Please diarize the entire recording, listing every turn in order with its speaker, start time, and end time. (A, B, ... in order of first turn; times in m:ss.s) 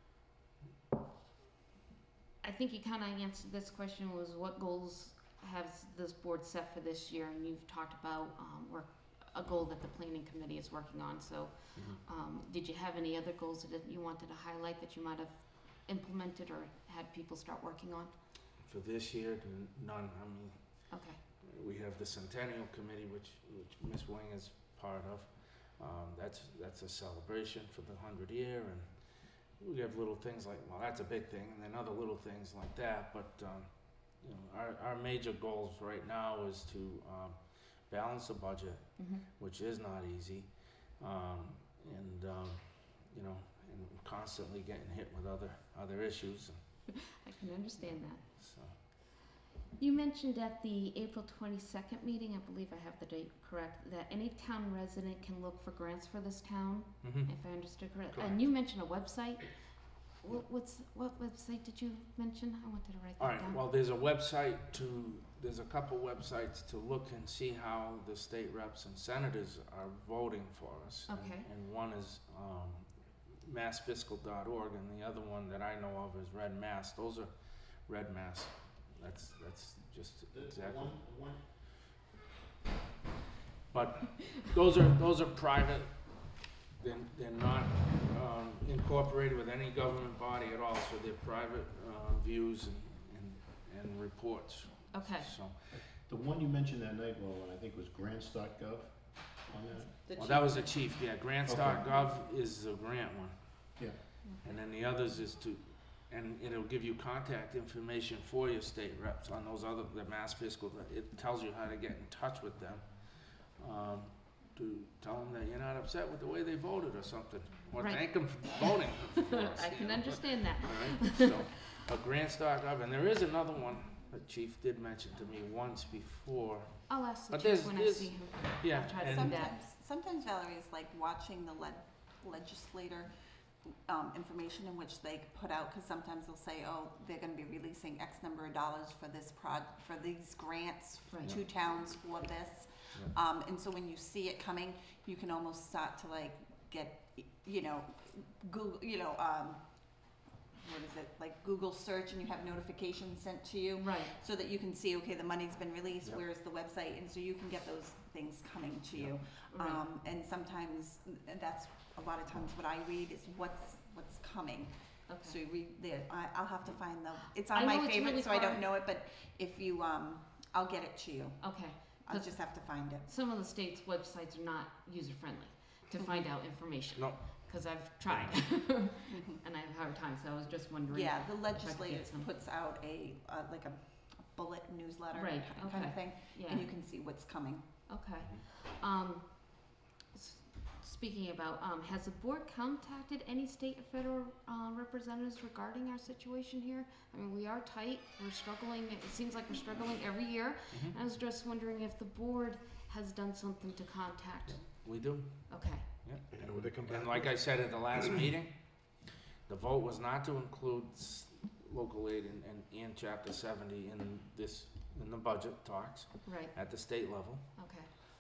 0:02.4-0:18.1 A
0:18.6-0:20.9 B
0:20.9-0:21.2 A
0:21.4-0:28.9 B
0:29.6-0:37.4 B
0:37.9-0:38.8 B
0:39.0-0:39.3 A
0:39.4-0:46.6 B
0:46.9-0:48.2 A
0:48.4-0:48.8 B
0:49.8-0:59.5 A
0:57.0-0:57.3 B
1:00.2-1:03.6 A
1:03.2-1:17.3 B
1:11.1-1:11.5 A
1:17.9-1:20.8 B
1:20.3-1:21.4 C
1:23.7-1:25.9 B
1:26.8-1:35.6 B
1:34.9-1:35.3 A
1:35.8-1:40.0 C
1:40.1-1:40.8 A
1:40.2-1:43.4 B
1:41.5-1:41.9 C
1:44.4-1:53.0 B
1:53.6-2:09.7 B
1:57.8-2:01.5 A
2:06.9-2:09.5 A
2:08.8-2:53.1 D
2:21.1-2:21.4 A
2:33.8-2:34.1 A
2:39.5-2:39.8 A
2:45.1-2:45.4 A
2:47.3-2:48.7 A
2:51.4-3:02.3 A
2:57.0-2:57.2 B
3:00.9-3:07.7 D
3:05.1-3:07.2 A
3:07.9-3:25.9 A
3:24.7-3:26.3 B
3:26.3-3:27.3 C
3:26.8-3:28.9 B
3:29.5-3:37.5 B
3:36.3-3:36.6 A
3:37.6-3:37.9 A